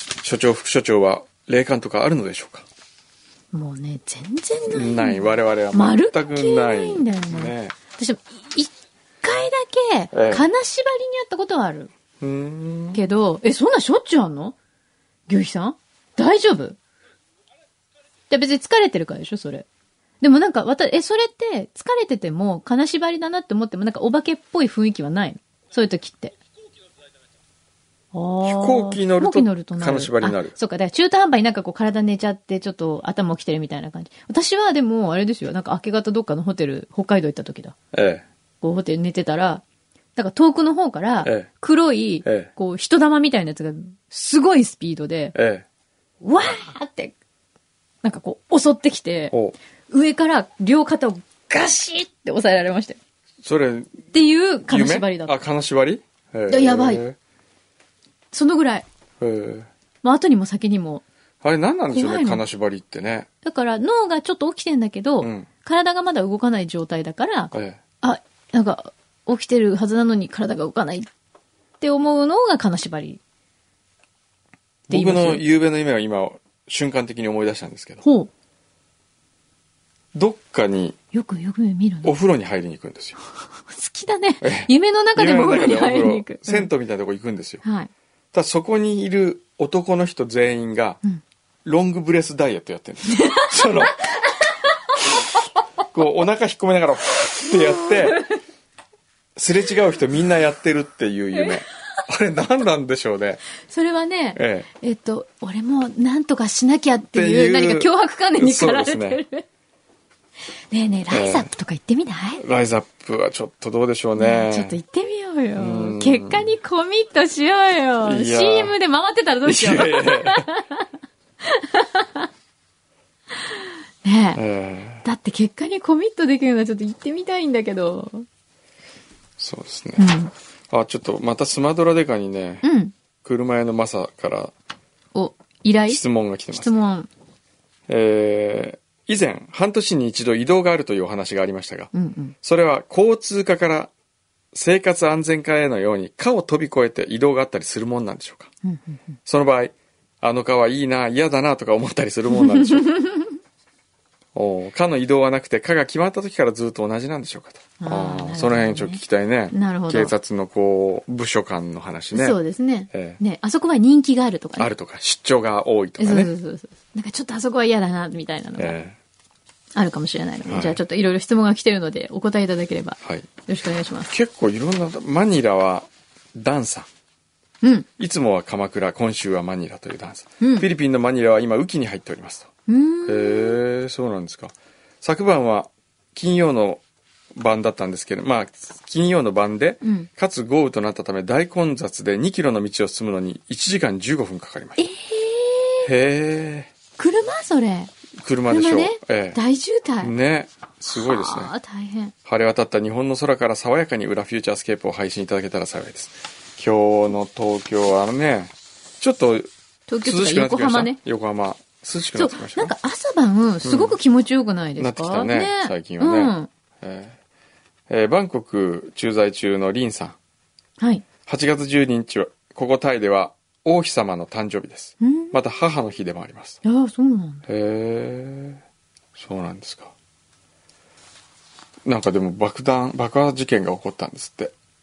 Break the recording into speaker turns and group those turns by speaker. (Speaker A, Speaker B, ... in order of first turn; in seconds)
Speaker A: 0.2-2.6, 4.7-7.8, 10.1-10.4, 12.2-13.0, 28.4-30.5, 37.9-38.2, 41.2-41.5, 42.2-42.5, 45.3-45.6, 53.4-54.0, 54.7-57.2, 59.2-59.7, 61.4-63.3, 65.2-65.5, 67.5-67.8, 74.9-78.0, 80.1-81.0, 82.0-83.2, 84.4-87.6, 88.3-91.0, 91.7-94.0, 95.9-98.3, 99.3-103.4, 104.3-104.7, 107.1-109.2, 111.1-111.5, 112.4-114.8, 115.5-116.5, 118.0-118.7, 119.5-120.5, 124.3-125.0, 129.4-130.1, 130.7-132.6, 133.2-134.5, 135.9-136.7, 137.9-141.9, 142.4-143.9, 144.5-148.5, 149.3-153.0, 154.3-162.4, 162.9-163.2, 164.6-166.3, 168.6-169.0, 170.5-170.8, 174.1-176.9, 178.0-182.5, 183.1-186.8, 187.3-194.8, 195.8-196.7, 198.2-199.4, 200.0-201.5, 202.2-209.5, 210.0-212.7, 213.6-214.0, 214.8-217.2, 217.9-220.2, 221.3-226.6, 227.5-228.6, 229.2-229.9, 231.8-234.5
Speaker B: 3.5-8.7, 9.2-11.9, 12.9-14.6, 15.3-16.8, 18.3-19.6, 20.2-26.3, 28.1-37.7, 38.6-39.6, 40.2-45.3, 46.2-47.1, 48.0-49.4, 49.9-53.0, 54.1-55.3, 56.5-57.0, 58.3-58.9, 60.0-61.0, 61.9-62.4, 63.4-71.1, 71.8-73.2, 74.9-75.4, 78.0-78.3, 81.1-82.1, 83.7-86.7, 87.6-87.9, 93.2-94.2, 97.5-98.3, 103.7-109.5, 110.7-112.4, 114.2-120.9, 121.5-122.3, 124.0-124.4, 125.0-128.3, 130.0-130.3, 132.6-132.9, 135.2-137.1, 141.9-142.3, 148.6-149.2, 152.6-153.3, 157.8-160.1, 162.1-164.7, 166.0-168.8, 169.7-174.1, 177.6-177.9, 180.4-180.7, 182.7-183.6, 194.8-195.9, 197.0-197.9, 198.5-200.1, 200.9-202.1, 209.9-211.0, 212.2-216.5, 220.8-221.0, 225.0-225.3, 226.6-227.4